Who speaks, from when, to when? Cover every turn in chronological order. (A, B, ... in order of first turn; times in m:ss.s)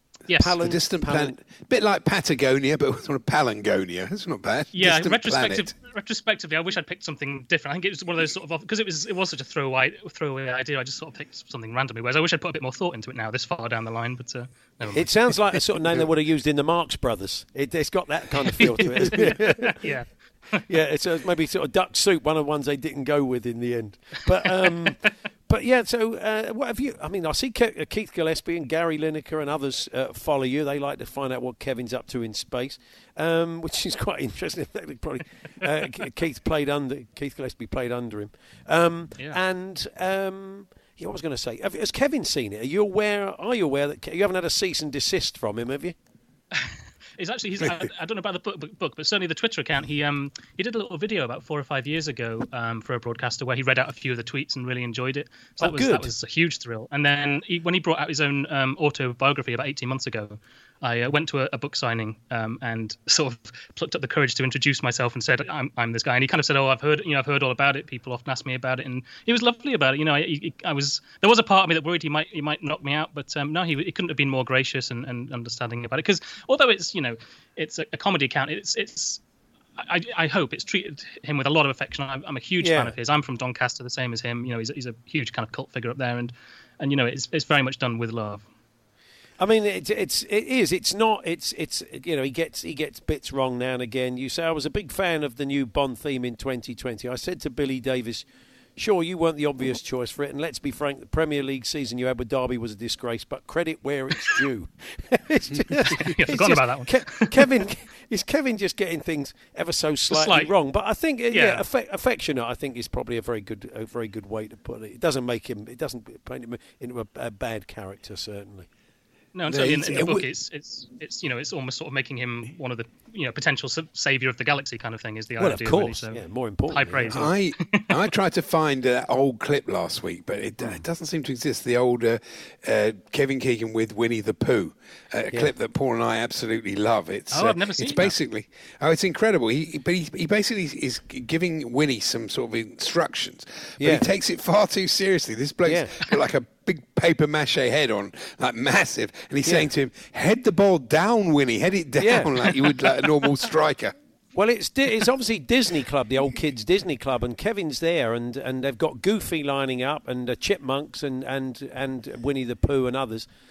0:00.3-0:00.5 A
0:00.3-0:01.4 B
0:00.4-0:05.7 C
0:04.7-0:15.6 A
0:14.9-0:19.9 B
0:18.5-0:20.6 A
0:20.7-0:46.0 B
0:47.2-1:19.2 A
0:55.6-0:56.1 B
1:19.8-1:28.4 A
1:22.6-1:22.9 B
1:29.4-1:58.7 B
1:45.9-1:47.3 A
1:50.1-1:50.5 A
1:51.3-1:51.6 A
1:59.4-2:07.8 A
1:59.5-2:00.3 C
2:05.4-2:07.2 B
2:07.1-2:33.9 C
2:17.3-2:18.1 A
2:23.8-2:24.1 B
2:25.6-2:26.0 B
2:29.4-2:29.7 B
2:32.0-2:32.6 B
2:34.4-2:43.3 B